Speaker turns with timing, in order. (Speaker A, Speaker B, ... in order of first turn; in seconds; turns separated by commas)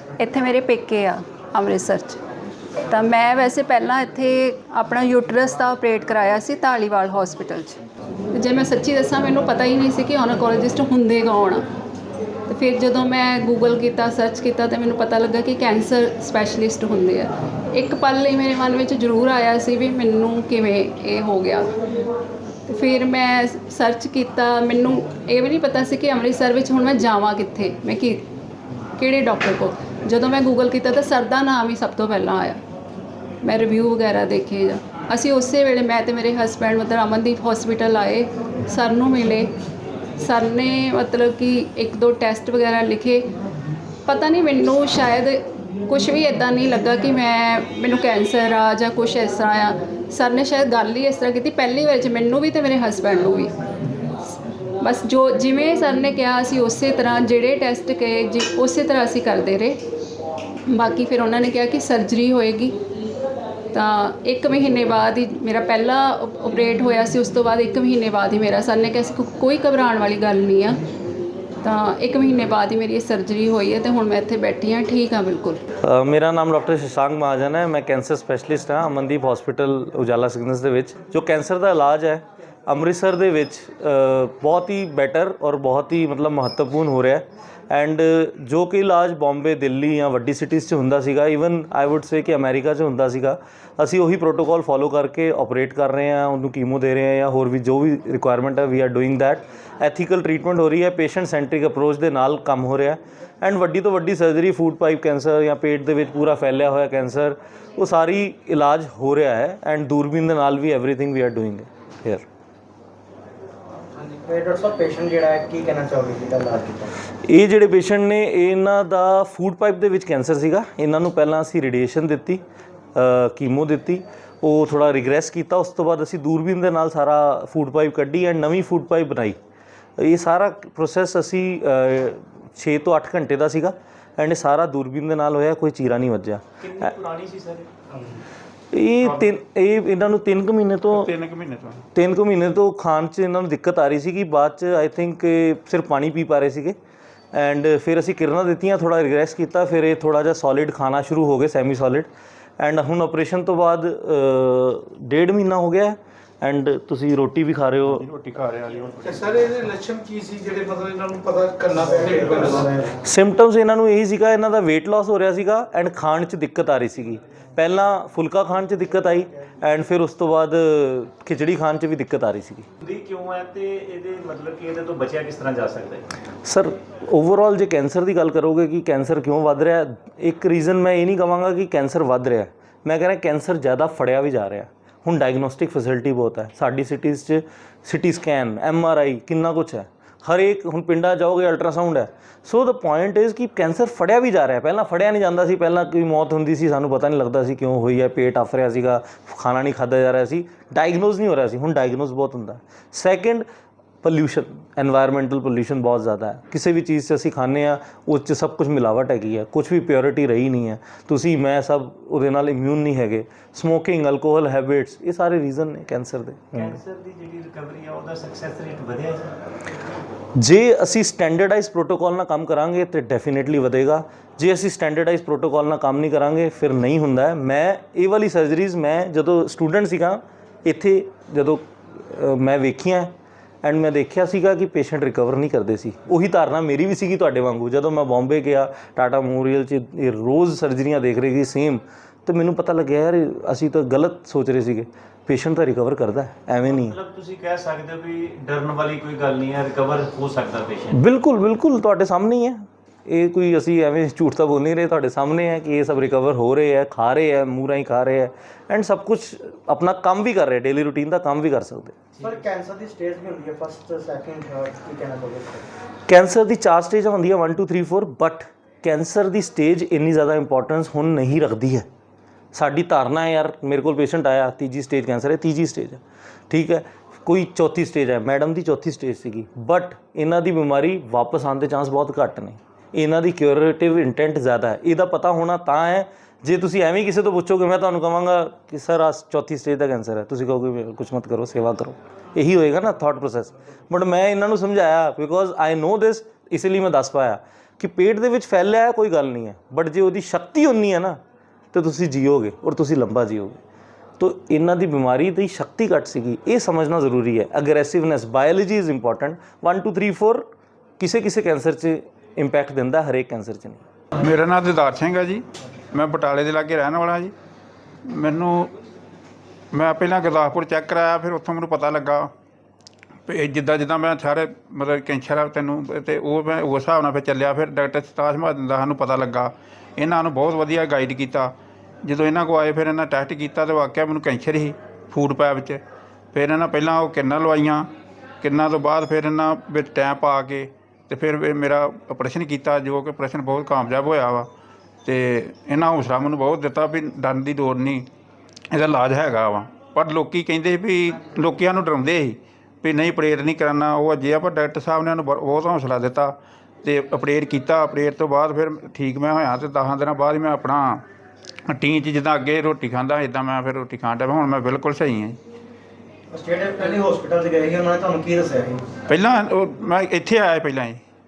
Speaker A: 0.2-2.2, Speaker A: 2.9-7.8, Speaker A: 8.3-11.7, Speaker A: 12.5-21.7, Speaker A: 22.7-28.3, Speaker A: 29.0-32.6, Speaker A: 33.4-39.5, Speaker A: 40.2-43.3, Speaker A: 44.1-53.5, Speaker A: 54.8-59.8, Speaker A: 60.7-62.7, Speaker A: 63.7-70.8, Speaker A: 71.6-75.6, Speaker B: 75.8-112.2, Speaker C: 114.0-116.9, Speaker B: 117.2-122.4, Speaker B: 123.0-129.4, Speaker B: 130.0-136.9, Speaker D: 136.6-137.7, Speaker B: 138.7-141.1, Speaker E: 140.9-141.8, Speaker B: 141.9-146.8, Speaker B: 147.3-158.0, Speaker E: 157.9-159.4, Speaker F: 159.0-162.8, Speaker C: 161.8-163.0, Speaker B: 163.0-172.7, Speaker D: 172.8-176.1, Speaker B: 176.4-203.5, Speaker B: 204.0-216.8, Speaker D: 216.6-219.5, Speaker B: 220.3-247.0, Speaker D: 246.6-251.0, Speaker B: 250.9-262.0, Speaker C: 262.2-265.7, Speaker B: 266.1-271.9, Speaker B: 272.5-301.2, Speaker B: 301.7-303.6, Speaker B: 304.2-310.5, Speaker B: 311.0-313.8, Speaker E: 314.2-317.3, Speaker E: 318.1-318.7, Speaker E: 319.7-322.3, Speaker E: 323.3-331.5, Speaker E: 332.0-335.8, Speaker E: 336.3-337.9, Speaker E: 338.4-344.5, Speaker E: 345.1-348.1, Speaker E: 348.7-361.1, Speaker E: 361.7-365.4, Speaker C: 366.3-368.8, Speaker E: 369.1-371.0